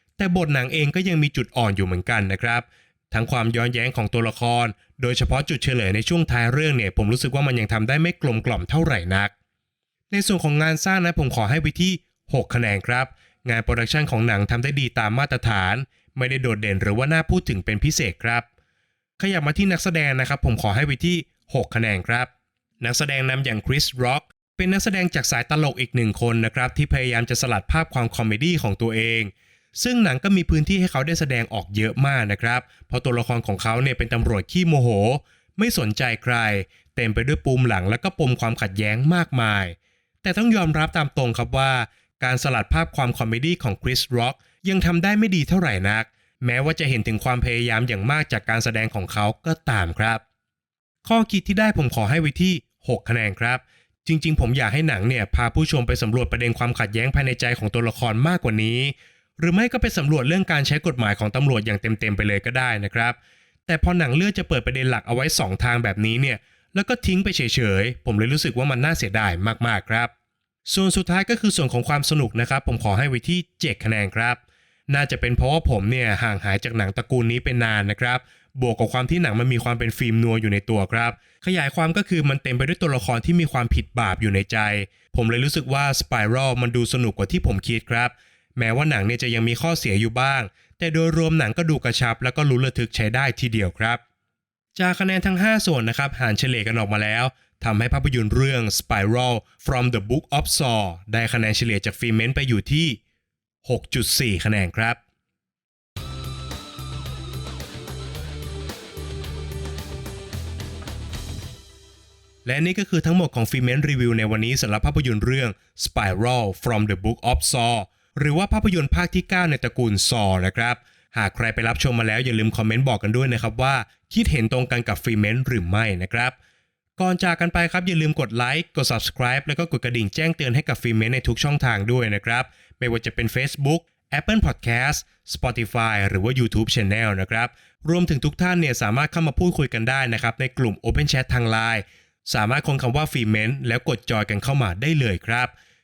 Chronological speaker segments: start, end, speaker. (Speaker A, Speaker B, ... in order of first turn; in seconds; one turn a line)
Speaker A: 0.2-9.3
Speaker A: 10.1-18.5
Speaker A: 19.2-50.2
Speaker A: 51.0-70.1
Speaker A: 70.7-94.0
Speaker A: 94.8-103.0
Speaker A: 103.6-105.0
Speaker A: 112.5-126.4
Speaker A: 127.0-145.5